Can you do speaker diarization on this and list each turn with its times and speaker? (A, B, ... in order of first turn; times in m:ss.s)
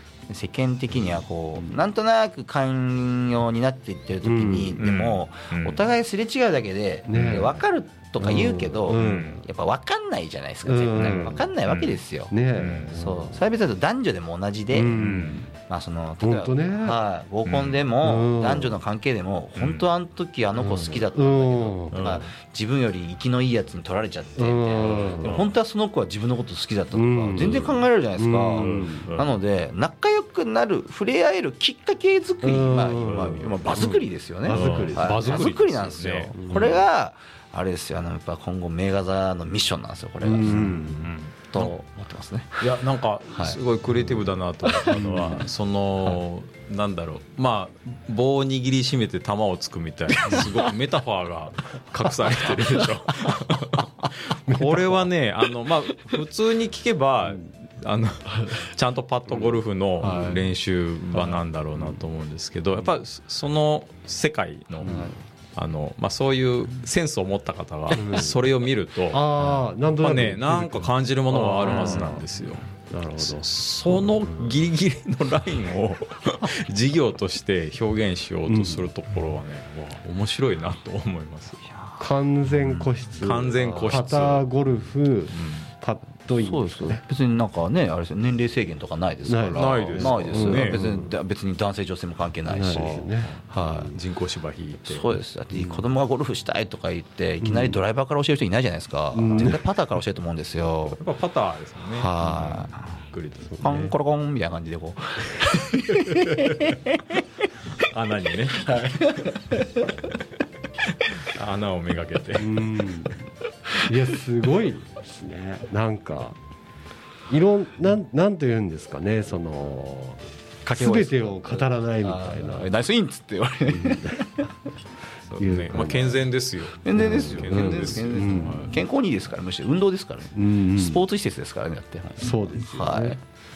0:00.3-0:12.4 A
0:04.2-0:04.8 B
0:04.8-0:05.8 C
0:07.1-0:07.6 B
0:07.1-0:07.5 C
0:08.2-0:09.4 B
0:08.9-0:09.4 C
0:10.6-0:11.5 B
0:11.0-0:12.0 C
0:12.3-0:13.4 B
0:12.5-0:13.0 C
0:12.9-0:42.8 A
0:14.7-0:15.5 B
0:14.9-0:15.4 C
0:16.2-0:17.0 B
0:17.4-0:17.8 C
0:18.0-0:18.8 B
0:19.5-0:19.8 C
0:20.6-0:22.0 B
0:21.9-0:22.3 C
0:24.4-0:25.4 B
0:25.1-0:25.5 C
0:26.9-0:29.1 B
0:28.6-0:29.3 C
0:32.4-0:35.6 B
0:33.1-0:33.5 C
0:34.4-0:36.3 C
0:36.3-0:36.8 B
0:40.2-0:41.0 B
0:40.4-0:41.7 C
0:42.6-1:12.6 C
0:43.3-0:43.6 A
0:44.8-0:45.5 B
0:52.3-0:52.7 B
0:54.5-0:55.0 B
1:00.0-1:00.4 B
1:04.8-1:05.2 A
1:07.9-1:08.4 B
1:09.1-1:12.2 B
1:11.7-1:12.0 A
1:12.9-1:13.5 B
1:13.2-1:21.6 C
1:18.4-1:18.9 B
1:21.7-1:22.0 A
1:22.0-1:27.0 B
1:22.6-1:24.5 C
1:25.3-1:25.7 C
1:26.4-1:34.0 A
1:29.2-1:31.1 B
1:29.5-1:30.8 C
1:32.4-1:33.8 B
1:32.7-1:35.0 C
1:34.8-1:41.0 A
1:35.5-1:35.8 B
1:37.4-1:37.8 B
1:39.1-1:39.6 B
1:40.9-1:43.9 C
1:41.9-1:43.0 A
1:43.6-1:47.5 A
1:45.9-1:46.8 C
1:47.8-1:49.6 C
1:48.7-1:49.8 A
1:51.1-1:53.1 C
1:52.4-1:53.2 B
1:53.8-1:56.3 B
1:57.3-2:02.7 B
2:00.6-2:04.5 A
2:03.7-2:04.2 B
2:05.3-2:08.7 C
2:05.4-2:06.2 B
2:06.8-2:13.2 A
2:07.0-2:08.7 B
2:10.3-2:11.0 B
2:12.2-2:13.2 B